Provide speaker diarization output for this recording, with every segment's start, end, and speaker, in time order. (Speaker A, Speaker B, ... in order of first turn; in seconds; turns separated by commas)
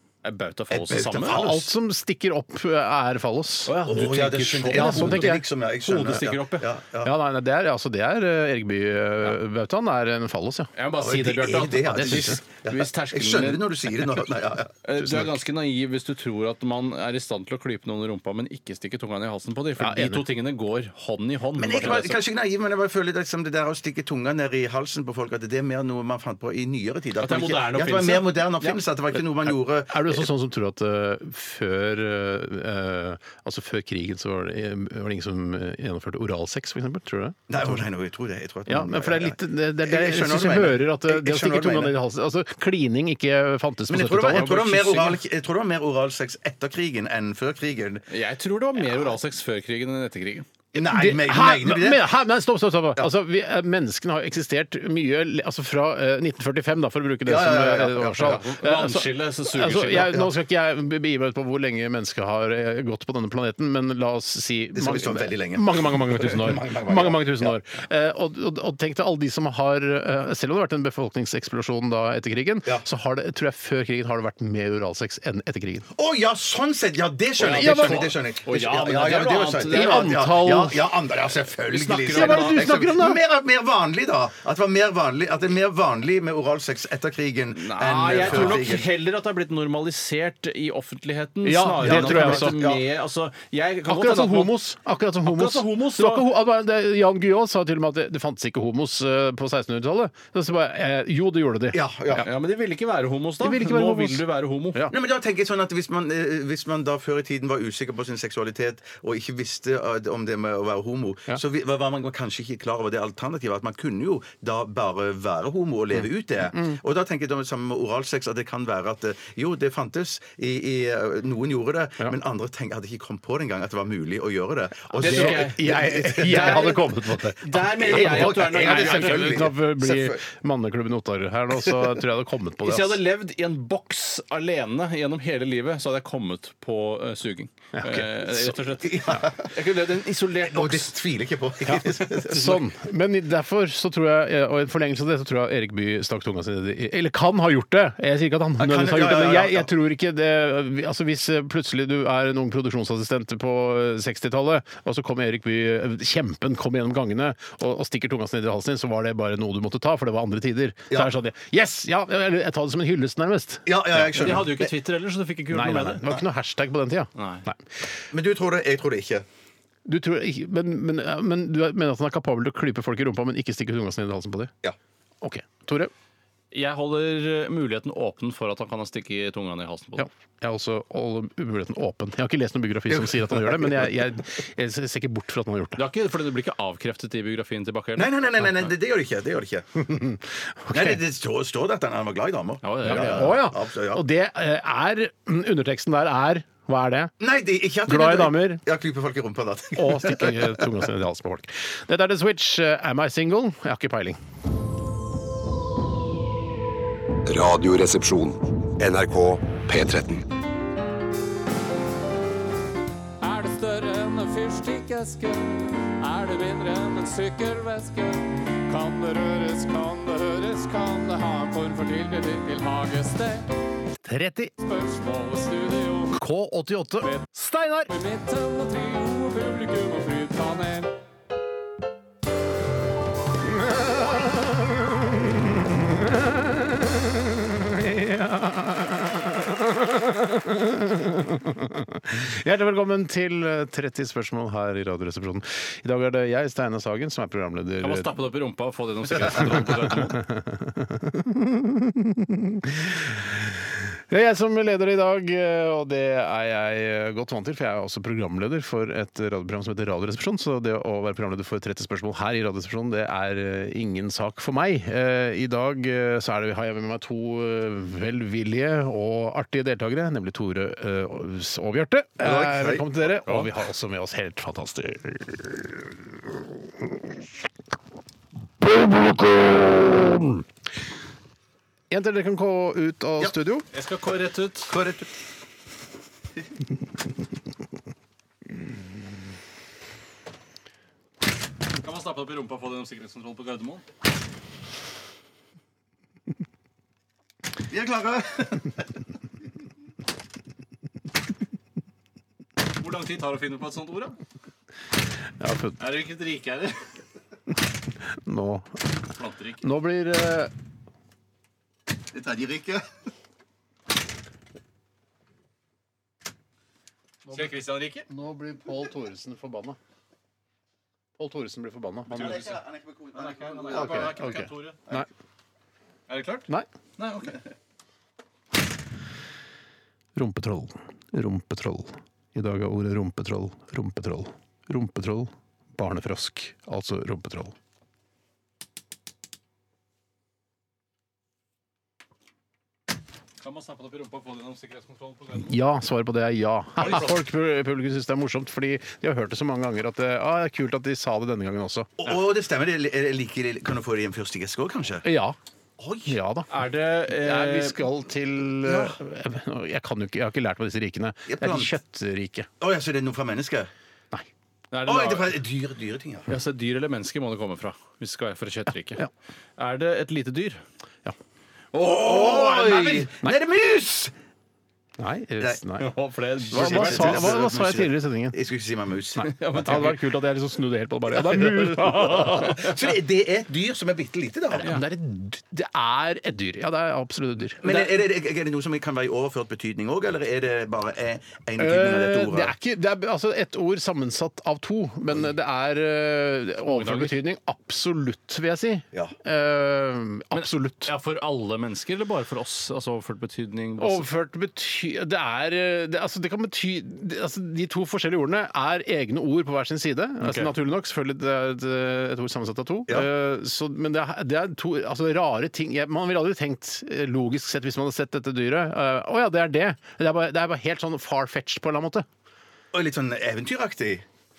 Speaker A: 0.2-1.4, Speaker B: 0.7-1.7, Speaker C: 1.2-3.8, Speaker A: 3.7-6.7, Speaker B: 3.9-7.1, Speaker C: 4.7-5.5, Speaker C: 7.0-10.7, Speaker A: 10.8-13.6, Speaker B: 11.0-14.8, Speaker C: 11.6-12.4, Speaker A: 14.8-22.2, Speaker C: 19.8-20.3, Speaker B: 21.6-30.3, Speaker A: 27.2-28.8, Speaker C: 29.9-37.8, Speaker B: 37.5-42.0, Speaker C: 38.7-45.0, Speaker B: 43.9-48.0, Speaker A: 44.3-45.2, Speaker A: 48.1-50.5, Speaker B: 50.7-52.1, Speaker C: 50.8-75.9, Speaker B: 57.3-58.5, Speaker A: 58.2-60.1, Speaker B: 64.7-67.6, Speaker B: 76.0-88.9, Speaker C: 77.4-78.1, Speaker A: 77.4-80.1, Speaker C: 79.7-80.9, Speaker C: 81.8-83.2, Speaker A: 81.8-82.6, Speaker A: 87.5-94.6, Speaker C: 88.2-88.7, Speaker C: 91.4-92.6, Speaker B: 91.8-92.8, Speaker C: 93.9-102.2, Speaker A: 95.2-96.3, Speaker B: 101.7-102.3, Speaker A: 102.2-104.9, Speaker C: 103.4-104.9, Speaker B: 104.9-130.2, Speaker C: 116.0-116.8, Speaker A: 125.0-126.8, Speaker C: 125.0-133.0, Speaker A: 127.4-129.4, Speaker A: 132.6-140.9, Speaker C: 137.7-138.5, Speaker B: 138.8-139.5, Speaker B: 140.5-142.6, Speaker C: 141.7-164.5, Speaker B: 148.6-149.7, Speaker B: 163.7-164.7, Speaker A: 164.2-166.0, Speaker C: 165.5-167.6, Speaker A: 167.2-167.5, Speaker B: 168.1-169.2, Speaker C: 169.9-174.5, Speaker C: 175.2-175.9, Speaker A: 176.5-180.1, Speaker C: 180.0-185.8, Speaker B: 182.9-183.9, Speaker A: 185.8-188.1, Speaker B: 188.0-190.1, Speaker C: 190.0-191.0, Speaker B: 190.7-194.1, Speaker A: 192.6-193.4, Speaker C: 192.8-197.1, Speaker B: 197.2-200.6, Speaker C: 197.8-198.6, Speaker C: 199.8-204.2, Speaker D: 207.3-210.2, Speaker E: 213.2-223.5, Speaker C: 224.0-224.5, Speaker E: 224.6-226.2, Speaker C: 226.1-227.9, Speaker E: 227.9-230.9, Speaker C: 233.4-248.2, Speaker A: 247.8-250.2, Speaker C: 249.2-276.4, Speaker B: 272.2-272.9, Speaker C: 278.6-280.4, Speaker C: 281.9-283.7, Speaker A: 283.7-284.8, Speaker B: 284.7-285.1, Speaker A: 291.8-293.8, Speaker B: 297.7-298.7, Speaker A: 302.7-304.1, Speaker C: 305.4-305.8, Speaker A: 305.8-306.8, Speaker C: 308.2-308.8, Speaker A: 309.1-309.6, Speaker C: 309.6-310.5, Speaker B: 312.1-312.9, Speaker A: 317.3-318.1, Speaker C: 318.1-319.8, Speaker C: 321.2-322.6, Speaker A: 322.1-322.6, Speaker B: 322.1-324.2, Speaker A: 323.1-324.8, Speaker C: 323.7-325.1, Speaker A: 326.1-327.4, Speaker C: 330.1-337.6, Speaker A: 343.4-345.6, Speaker C: 345.4-351.9, Speaker A: 346.8-347.2, Speaker B: 352.0-355.1, Speaker C: 355.0-355.4, Speaker B: 355.8-356.2, Speaker C: 356.1-356.5, Speaker A: 356.5-357.8, Speaker C: 357.1-362.5, Speaker B: 358.6-358.9, Speaker B: 361.3-361.7, Speaker B: 362.6-363.7, Speaker A: 364.7-365.3, Speaker B: 364.9-366.3, Speaker A: 366.3-369.1, Speaker A: 369.6-370.6, Speaker C: 371.8-373.4, Speaker B: 371.8-374.1, Speaker C: 375.0-375.9, Speaker A: 375.8-377.4, Speaker C: 376.5-378.4, Speaker B: 376.5-379.8, Speaker A: 379.2-380.0, Speaker C: 379.6-382.8, Speaker B: 381.9-384.7, Speaker C: 384.5-387.9, Speaker B: 387.6-392.5, Speaker C: 391.6-400.9, Speaker A: 396.7-397.1, Speaker A: 400.3-404.1, Speaker C: 403.8-422.1, Speaker A: 410.2-410.5, Speaker B: 422.7-424.1